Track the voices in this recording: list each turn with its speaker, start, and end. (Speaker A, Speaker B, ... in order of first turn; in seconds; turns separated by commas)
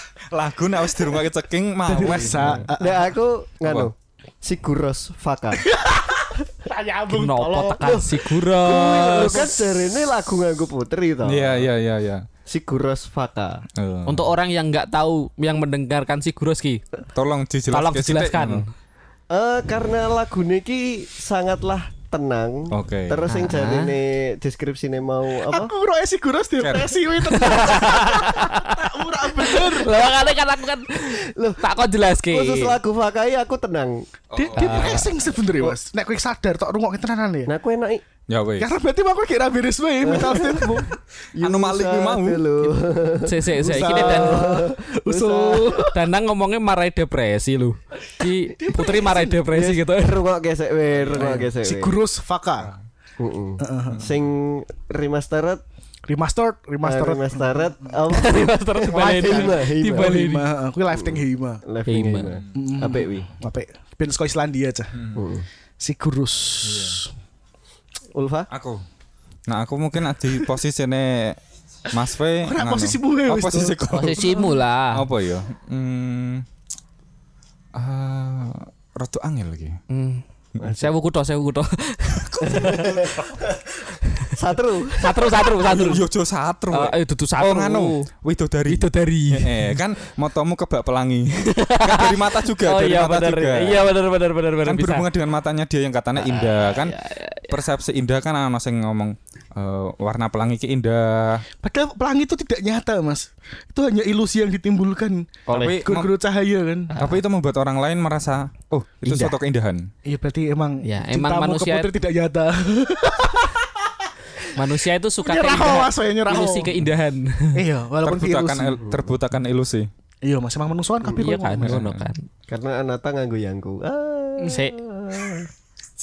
Speaker A: 0.2-2.7, Speaker B: 1.9-3.1, Speaker C: 2.0-5.6, Speaker A: 3.6-3.9, Speaker B: 5.7-10.0, Speaker D: 7.1-9.5, Speaker C: 7.8-11.7, Speaker A: 11.2-12.2, Speaker C: 12.5-13.6, Speaker A: 13.8-14.3, Speaker D: 14.1-16.8, Speaker A: 17.1-18.6, Speaker D: 17.7-18.7, Speaker C: 19.3-25.7, Speaker A: 22.7-23.2, Speaker D: 23.3-23.9, Speaker B: 25.4-30.0, Speaker A: 26.6-26.9, Speaker D: 27.3-32.8, Speaker C: 31.1-31.6, Speaker C: 32.3-34.0, Speaker A: 34.3-35.1, Speaker B: 34.3-37.5, Speaker D: 34.6-35.1, Speaker C: 37.5-38.0, Speaker A: 38.3-38.7, Speaker B: 38.6-40.9, Speaker C: 40.0-45.9, Speaker A: 41.4-42.5, Speaker D: 43.2-44.5, Speaker B: 43.5-46.0, Speaker D: 45.9-50.2, Speaker B: 48.5-49.4, Speaker C: 49.5-52.0, Speaker A: 51.0-51.3, Speaker B: 51.1-52.7, Speaker C: 53.2-55.6, Speaker B: 53.6-54.0, Speaker B: 56.1-57.9, Speaker C: 56.8-60.2, Speaker D: 58.1-60.5, Speaker B: 58.9-61.6, Speaker C: 60.9-63.3, Speaker D: 61.9-62.3, Speaker B: 62.5-64.9, Speaker A: 64.9-65.3, Speaker C: 65.1-65.5, Speaker B: 65.8-67.1, Speaker A: 66.6-67.0, Speaker C: 68.1-68.5, Speaker A: 68.5-68.8, Speaker A: 69.5-71.4, Speaker A: 71.9-74.3, Speaker B: 72.4-74.6, Speaker D: 73.9-75.0, Speaker A: 74.9-76.4, Speaker A: 77.7-79.8, Speaker D: 79.9-83.1, Speaker C: 80.6-80.9, Speaker A: 82.3-83.1, Speaker C: 82.4-83.6, Speaker C: 84.3-85.4, Speaker D: 85.0-86.0, Speaker A: 85.6-93.9, Speaker D: 86.7-88.0, Speaker D: 88.7-89.8, Speaker D: 91.4-95.0, Speaker A: 94.6-96.9, Speaker D: 96.2-97.6, Speaker A: 97.5-101.4, Speaker B: 101.6-105.3, Speaker D: 105.5-105.8, Speaker A: 105.5-106.1, Speaker B: 105.8-106.9, Speaker D: 106.9-107.2, Speaker A: 107.0-109.9, Speaker D: 109.0-109.3, Speaker B: 110.0-113.7, Speaker D: 110.8-111.9, Speaker D: 114.5-117.6, Speaker B: 115.2-116.7, Speaker B: 117.5-118.8, Speaker A: 118.0-119.9, Speaker C: 118.8-119.1, Speaker B: 120.2-121.8, Speaker D: 121.1-122.2, Speaker A: 121.6-122.1, Speaker C: 122.5-125.5, Speaker D: 124.5-124.7